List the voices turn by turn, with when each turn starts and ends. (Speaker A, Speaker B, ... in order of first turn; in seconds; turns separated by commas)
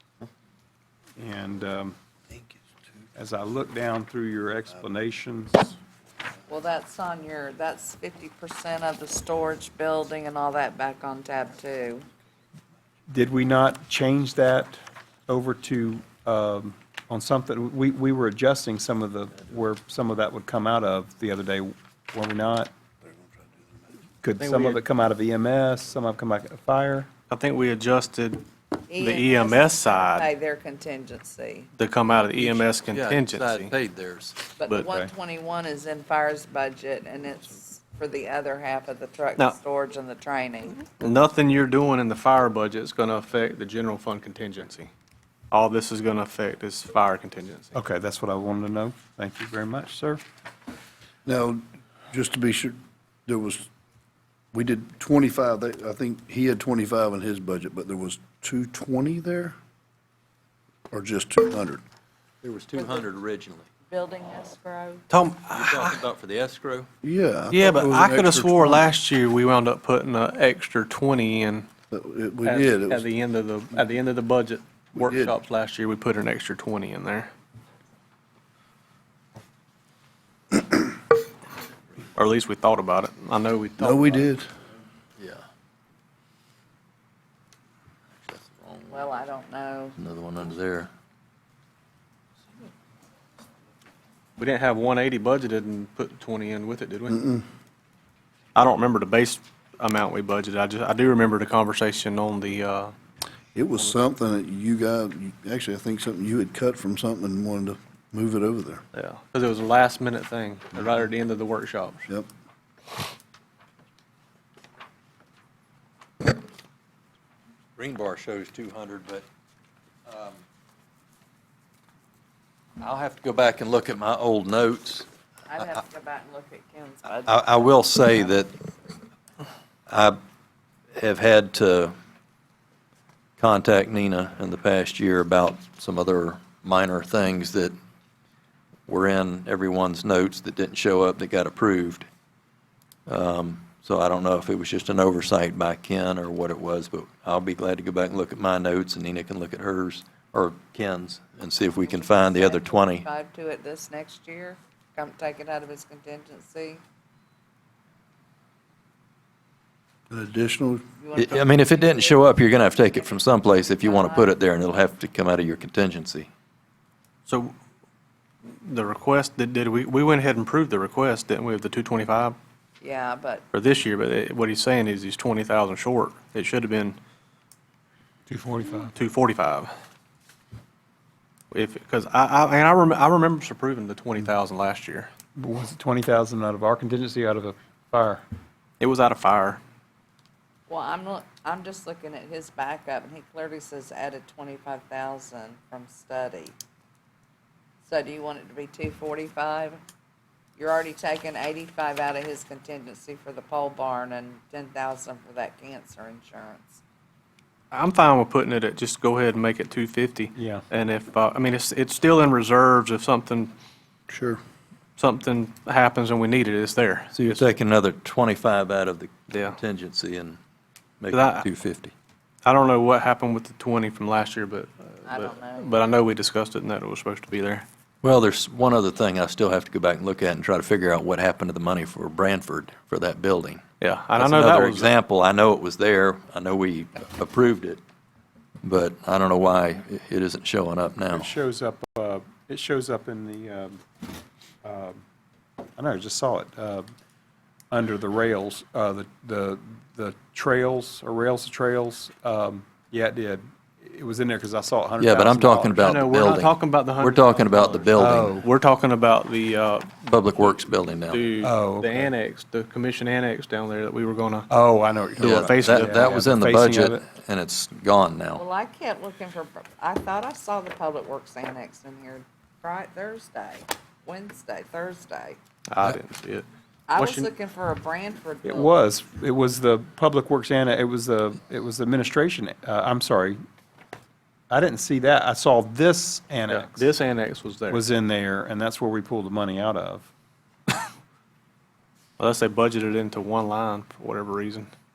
Speaker A: 1.2-2.0, Speaker A: 3.2-5.8, Speaker B: 6.5-12.1, Speaker A: 13.1-22.7, Speaker A: 24.2-27.1, Speaker C: 24.4-24.8, Speaker C: 27.3-30.2, Speaker B: 28.9-31.7, Speaker C: 31.8-33.7, Speaker D: 32.4-34.4, Speaker B: 34.6-40.8, Speaker A: 34.9-35.1, Speaker C: 40.8-44.9, Speaker C: 45.5-47.8, Speaker A: 47.7-50.2, Speaker E: 51.2-53.7, Speaker E: 54.5-59.5, Speaker E: 60.9-61.8, Speaker D: 62.4-63.7, Speaker B: 62.8-63.0, Speaker B: 63.9-65.1, Speaker C: 65.1-66.0, Speaker D: 65.5-66.9, Speaker E: 67.0-68.9, Speaker C: 67.5-71.7, Speaker E: 71.9-73.1, Speaker C: 72.5-77.3, Speaker E: 75.0-75.3, Speaker C: 82.2-84.3, Speaker E: 83.8-84.5, Speaker D: 85.2-85.4, Speaker D: 88.2-89.1, Speaker B: 88.9-90.0, Speaker D: 90.0-90.9, Speaker C: 94.4-97.2, Speaker E: 97.1-97.5, Speaker C: 98.5-102.9, Speaker E: 103.5-108.8, Speaker C: 108.9-112.0, Speaker D: 117.8-119.3, Speaker D: 120.1-120.4, Speaker D: 122.8-125.1, Speaker B: 125.5-128.7, Speaker D: 127.2-128.5, Speaker D: 129.9-130.2, Speaker D: 131.0-131.9, Speaker D: 133.4-137.7, Speaker D: 138.9-142.1, Speaker D: 143.1-153.1, Speaker B: 151.8-156.8, Speaker E: 160.1-160.8, Speaker B: 161.0-164.4, Speaker D: 161.2-166.3, Speaker C: 167.3-167.6, Speaker C: 168.4-172.4, Speaker B: 172.8-173.4, Speaker C: 173.5-177.0, Speaker A: 178.3-178.9, Speaker C: 178.9-179.7, Speaker C: 181.5-185.1, Speaker A: 185.4-188.2, Speaker C: 188.8-189.6, Speaker B: 190.7-196.6, Speaker B: 197.8-199.8, Speaker B: 200.6-206.8, Speaker C: 207.7-213.5, Speaker A: 210.4-210.7, Speaker E: 214.1-214.4, Speaker C: 215.0-217.5, Speaker D: 217.1-220.4, Speaker C: 219.3-219.6, Speaker D: 221.0-221.9, Speaker C: 221.1-221.5, Speaker C: 222.4-227.7, Speaker B: 225.1-225.8, Speaker D: 228.0-233.6, Speaker C: 233.8-234.9, Speaker D: 234.2-237.8, Speaker D: 238.6-241.3, Speaker A: 241.1-243.8, Speaker A: 244.6-245.0, Speaker A: 245.8-246.9, Speaker A: 247.7-255.9, Speaker D: 255.0-258.4, Speaker C: 255.8-257.9, Speaker A: 257.9-258.5, Speaker C: 258.4-264.5, Speaker D: 260.0-261.2, Speaker A: 261.4-262.1, Speaker A: 264.5-267.1, Speaker C: 265.2-266.2, Speaker D: 265.2-268.4, Speaker B: 268.4-275.4, Speaker C: 275.7-276.5, Speaker B: 276.9-278.7, Speaker C: 277.0-277.3, Speaker A: 278.4-283.4, Speaker A: 284.5-286.9, Speaker C: 286.5-287.8, Speaker A: 287.7-290.1, Speaker C: 292.2-294.7